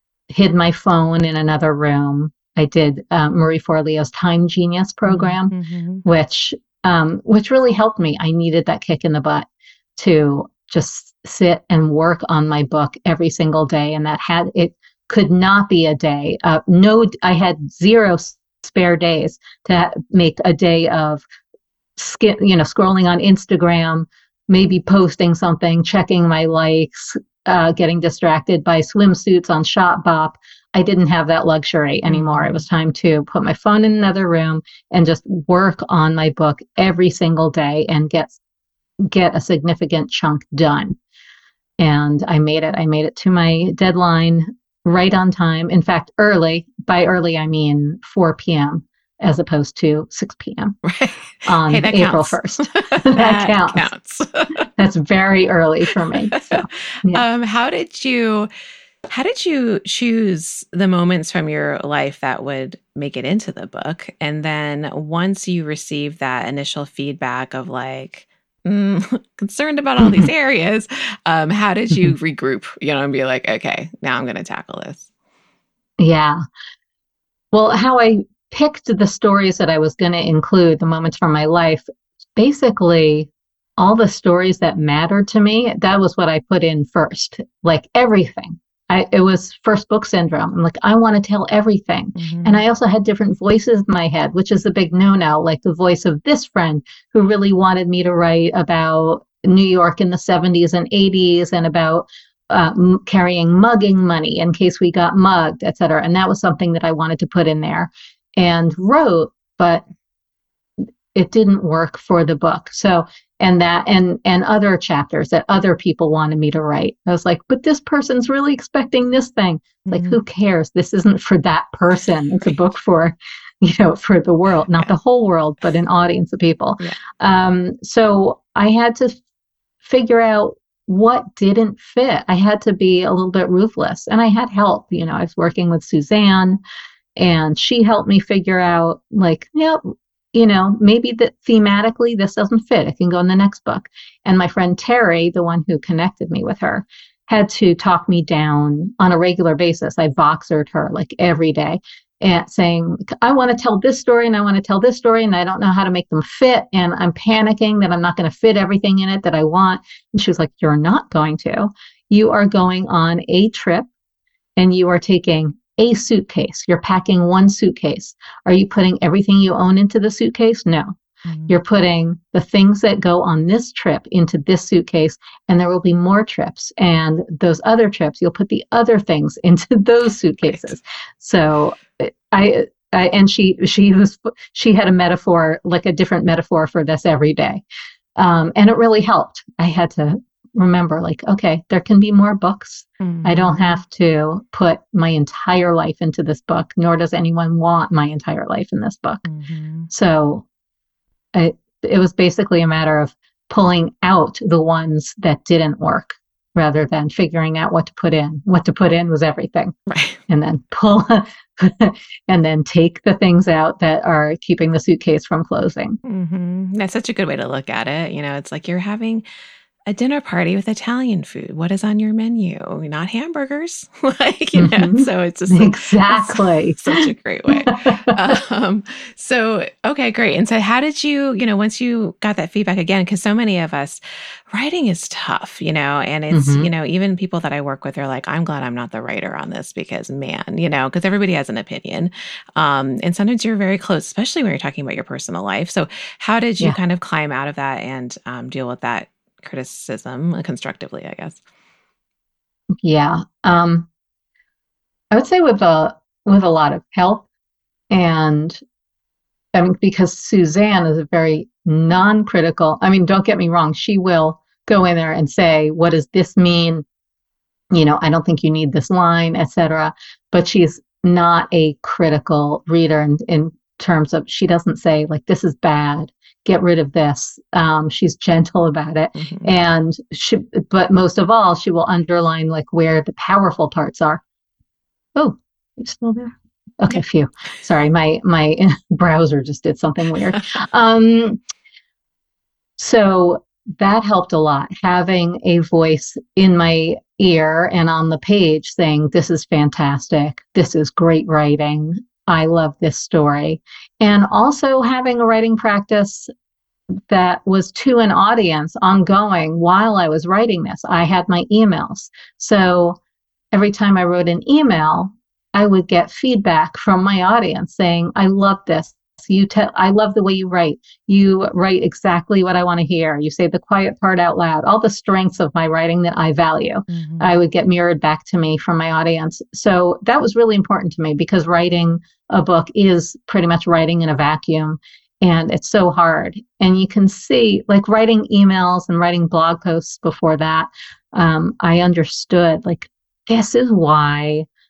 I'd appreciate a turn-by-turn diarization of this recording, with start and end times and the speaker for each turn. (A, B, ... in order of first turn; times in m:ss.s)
0:00.3-0:05.5 A
0:05.1-0:06.0 B
0:06.0-0:21.2 A
0:22.0-0:38.4 A
0:32.1-0:32.6 B
0:39.0-0:41.0 A
0:41.8-0:50.8 A
0:50.8-0:54.7 B
0:51.5-0:53.9 A
0:54.8-0:57.2 A
0:56.3-0:58.5 B
0:59.1-1:15.1 B
1:10.0-1:10.3 A
1:16.0-1:16.4 A
1:17.5-1:21.8 A
1:22.4-1:49.8 A
1:32.2-1:32.6 B
1:51.2-2:09.2 A
1:59.8-2:00.2 B
2:09.8-2:16.6 A
2:17.2-2:43.9 A
2:44.6-3:07.6 A
2:51.3-2:51.5 B
3:08.2-3:19.2 A
3:13.0-3:13.8 B
3:19.3-3:19.9 B
3:19.9-3:20.5 A
3:21.3-3:29.7 A
3:29.9-3:30.2 B
3:30.3-3:36.0 A
3:36.0-3:39.2 B
3:39.9-3:54.0 B
3:44.6-3:48.2 A
3:54.5-4:11.4 B
3:56.3-3:56.7 A
4:12.8-4:13.9 A
4:15.1-4:17.3 A
4:17.9-4:18.6 A
4:19.5-4:26.8 A
4:27.7-4:44.2 A
4:39.2-4:39.5 B
4:45.2-4:51.4 A
4:52.8-5:06.3 A
5:07.1-5:13.0 A
5:13.5-5:44.5 A
5:26.9-5:27.3 B